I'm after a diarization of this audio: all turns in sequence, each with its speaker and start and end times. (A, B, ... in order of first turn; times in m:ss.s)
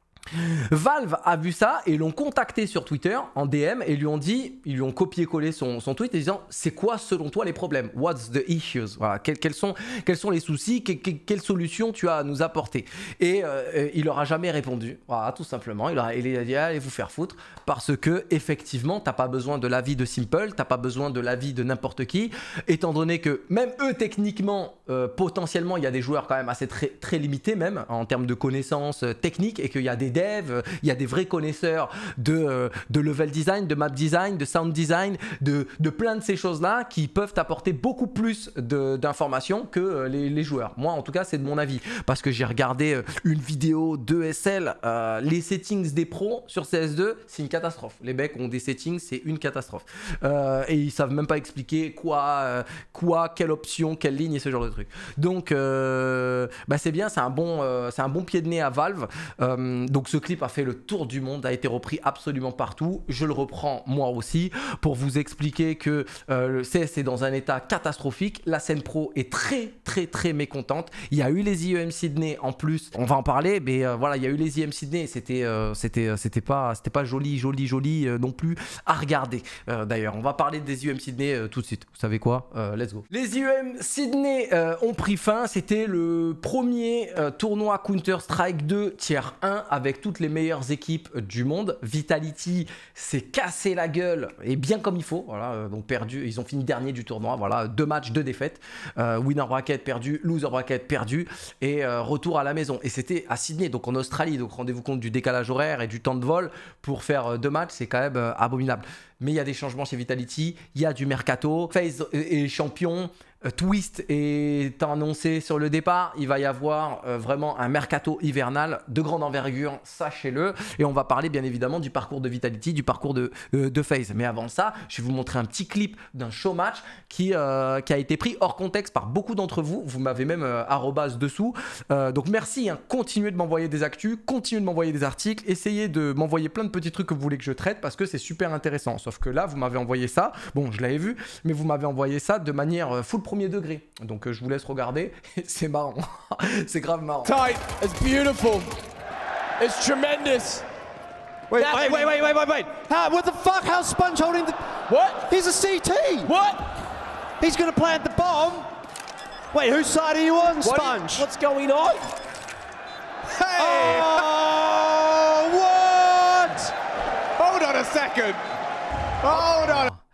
0:00.3-2:27.4 A
2:27.2-2:28.7 B
2:29.6-2:30.6 B
2:31.5-2:32.7 B
2:31.5-2:34.6 C
2:34.9-2:35.3 B
2:35.3-2:36.3 C
2:36.2-2:36.6 B
2:37.4-2:38.7 C
2:39.5-2:41.2 C
2:40.6-2:42.0 B
2:43.3-2:46.7 B
2:43.6-2:44.3 C
2:47.4-2:48.4 B
2:49.2-2:49.9 B